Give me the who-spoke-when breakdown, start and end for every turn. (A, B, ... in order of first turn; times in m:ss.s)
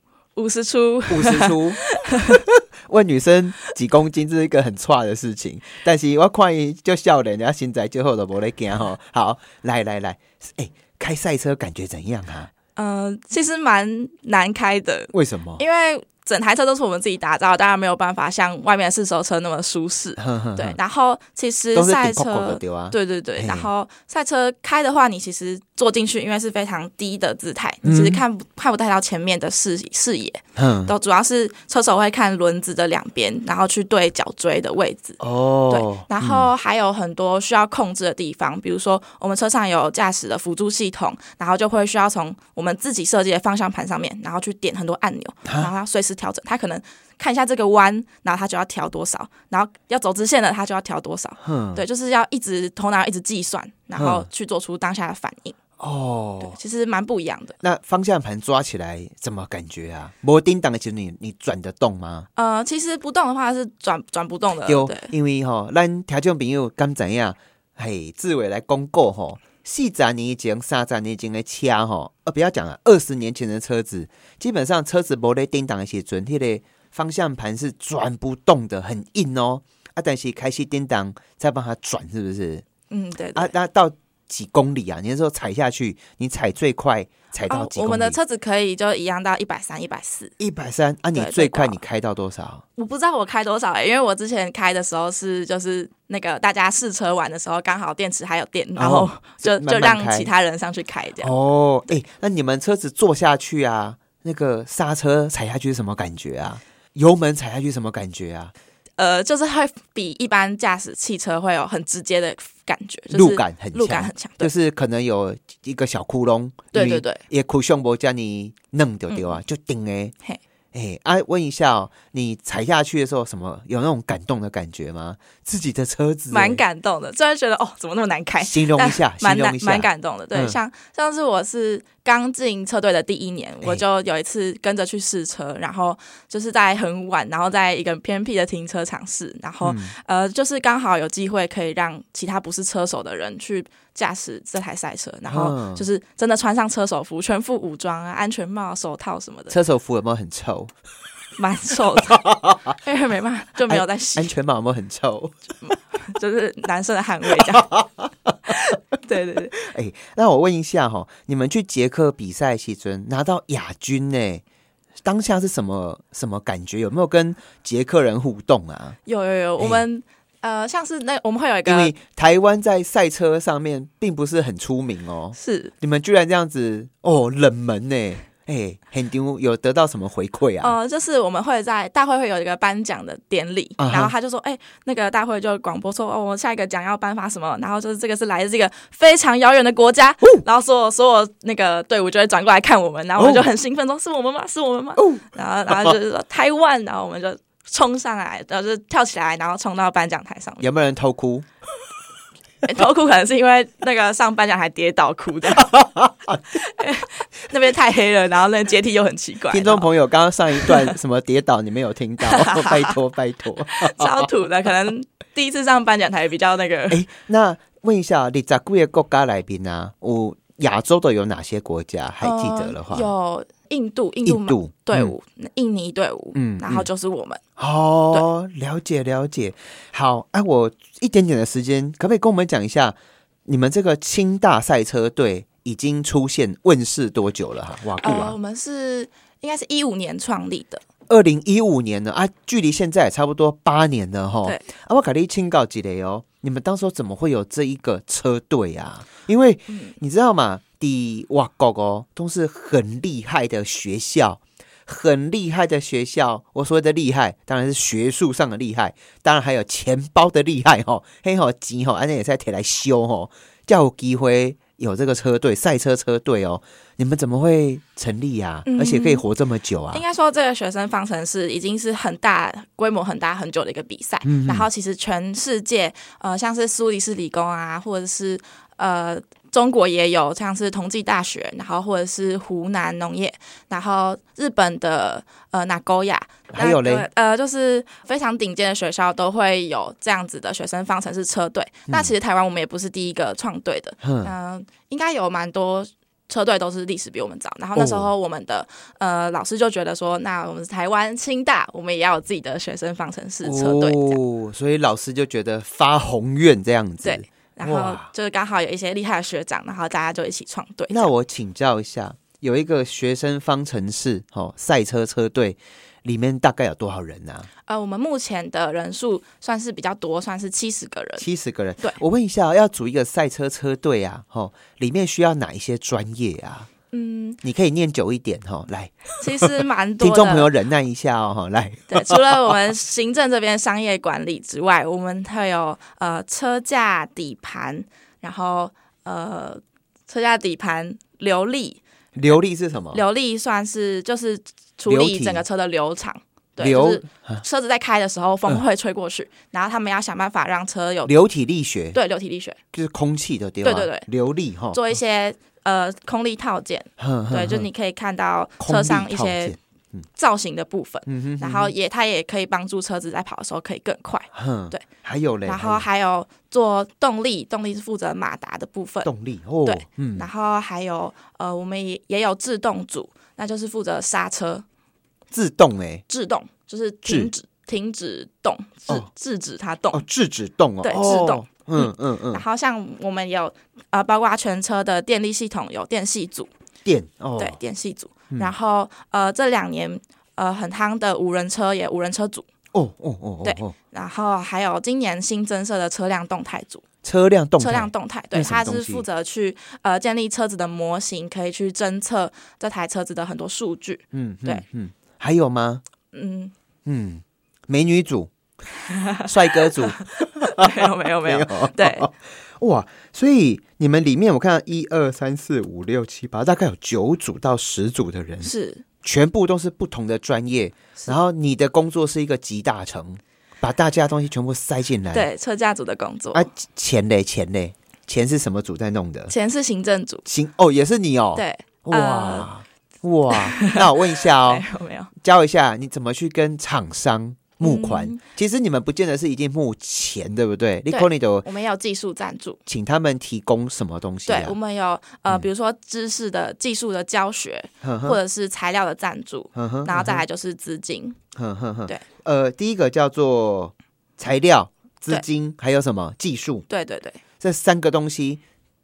0:00.4-0:02.4 A
0:01.1-0:12.5 B
0:12.8-0:35.2 A
0:15.1-0:15.6 B
0:20.2-0:20.8 B
0:21.7-0:23.7 B
0:27.8-0:28.2 B
0:30.6-0:30.9 B
0:35.2-0:36.5 B
0:35.7-0:55.6 A
0:45.5-0:45.7 B
0:51.4-0:51.8 B
0:54.0-0:54.3 B
0:55.8-0:56.6 B
0:56.4-0:57.6 A
0:57.6-1:02.3 B
1:02.4-1:05.1 A
1:04.7-1:22.6 B
1:22.9-1:23.5 A
1:23.4-1:28.2 B
1:27.5-1:30.3 A
1:30.4-1:32.6 B
1:31.2-1:31.8 A
1:32.8-1:41.3 A
1:38.8-1:40.3 B
1:41.2-1:48.5 B
1:49.0-1:54.5 A
1:53.1-2:00.1 B
1:56.7-1:57.2 A
1:59.1-1:59.4 A
2:00.7-2:06.6 B
2:06.3-2:29.6 A
2:08.4-2:10.6 B
2:19.6-2:19.9 B
2:25.3-2:25.9 B
2:29.5-2:30.7 B
2:31.4-2:34.3 A
2:32.1-2:32.8 B
2:33.7-2:35.4 B
2:35.6-2:37.7 A
2:37.4-2:38.6 B
2:38.5-2:39.6 A
2:39.5-2:44.4 B
2:45.0-2:49.0 B
2:49.1-2:51.9 A
2:49.6-2:49.8 B
2:51.6-3:00.8 B
2:55.4-2:55.7 A
3:00.6-3:20.7 A
3:03.8-3:04.1 B
3:13.2-3:13.5 B
3:15.0-3:16.0 B
3:20.6-3:21.5 B
3:22.6-3:25.7 A
3:25.5-3:26.6 B
3:26.5-3:29.9 A
3:29.5-3:34.3 B
3:30.6-3:30.9 A
3:32.3-3:33.0 A
3:33.7-3:37.0 A
3:36.9-3:43.1 B
3:42.2-3:47.4 A
3:44.2-3:45.2 B
3:46.3-3:46.9 B
3:47.6-3:58.4 B
3:58.0-4:00.8 A
4:01.1-4:30.0 B
4:09.7-4:09.9 A
4:28.7-4:29.2 A
4:29.9-5:04.2 A
4:34.2-4:34.7 B
4:46.5-4:47.1 B
4:51.9-4:52.1 B
4:54.0-4:54.3 B
4:57.8-4:58.1 B
5:03.4-5:08.1 B
5:07.0-5:11.1 A
5:10.9-5:17.5 B
5:17.7-5:21.2 A
5:21.2-5:26.7 B
5:26.9-5:27.4 A
5:27.4-5:32.5 B
5:29.2-5:30.5 A
5:31.9-5:41.8 A
5:42.2-5:43.0 B
5:42.9-5:51.1 A
5:44.9-5:45.4 B
5:46.6-5:47.4 B
5:51.0-5:52.0 B
5:51.9-5:52.6 A
5:52.7-5:54.8 B
5:53.6-5:54.1 A
5:54.7-5:59.6 A
5:57.0-5:57.7 B
5:58.6-6:00.0 B
6:00.2-6:04.8 A
6:01.1-6:01.7 B
6:04.3-6:05.8 B
6:05.4-6:09.1 A
6:09.0-6:10.3 B
6:09.6-6:14.6 A
6:15.3-6:16.0 B
6:16.1-6:20.0 A
6:17.1-6:17.3 B
6:19.9-6:22.4 B
6:20.8-6:26.5 A
6:26.8-6:27.6 B
6:27.4-6:32.5 A
6:32.7-6:33.8 B
6:33.4-6:36.8 A
6:37.0-6:39.0 B
6:37.6-6:44.6 A
6:44.1-6:45.8 B
6:46.1-6:46.5 A
6:46.8-6:48.3 B
6:48.8-6:52.1 A
6:49.2-7:05.3 B
6:58.4-6:58.8 A
7:05.1-7:06.5 A
7:06.3-7:09.3 B
7:09.3-7:10.2 A
7:10.2-7:14.6 B
7:11.4-7:12.5 A
7:13.3-7:15.1 A
7:15.2-7:21.5 B
7:17.6-7:18.2 A
7:20.9-7:22.6 A
7:22.7-7:24.6 B
7:24.3-7:31.2 A
7:27.8-7:28.2 B
7:29.6-7:30.2 B
7:31.4-7:36.7 B
7:36.7-7:37.2 A
7:37.4-7:38.4 B